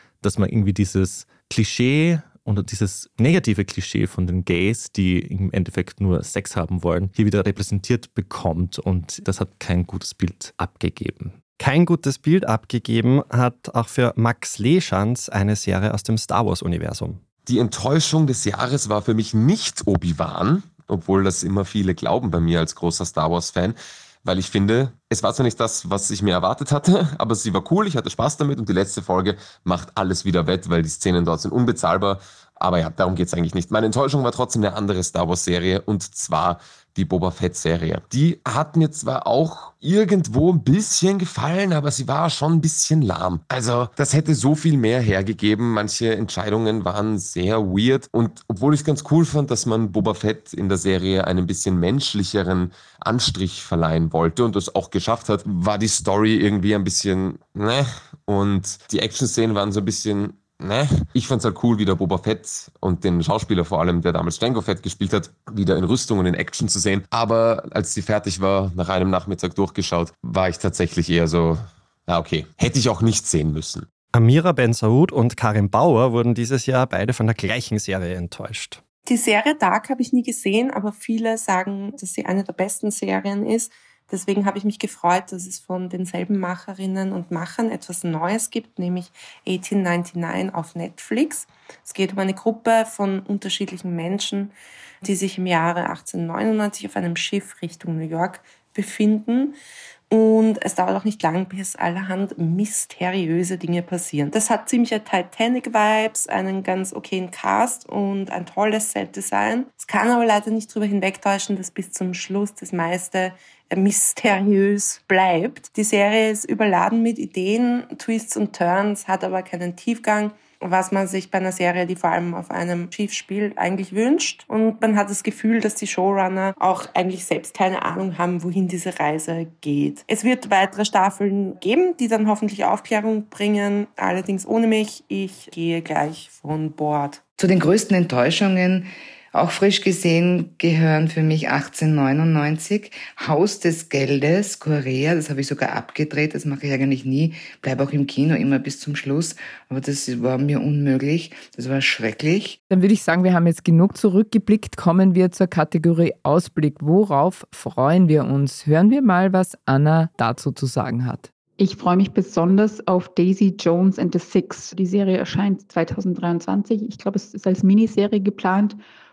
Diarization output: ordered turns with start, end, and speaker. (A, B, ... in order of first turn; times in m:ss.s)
0:00.2-0:11.4 A
0:11.6-0:17.2 B
0:17.5-1:13.9 C
1:14.1-1:18.8 B
1:19.1-1:34.5 D
1:35.0-1:39.6 D
1:40.1-2:17.2 D
2:17.4-2:32.6 E
2:32.7-2:41.3 F
2:41.6-2:48.8 G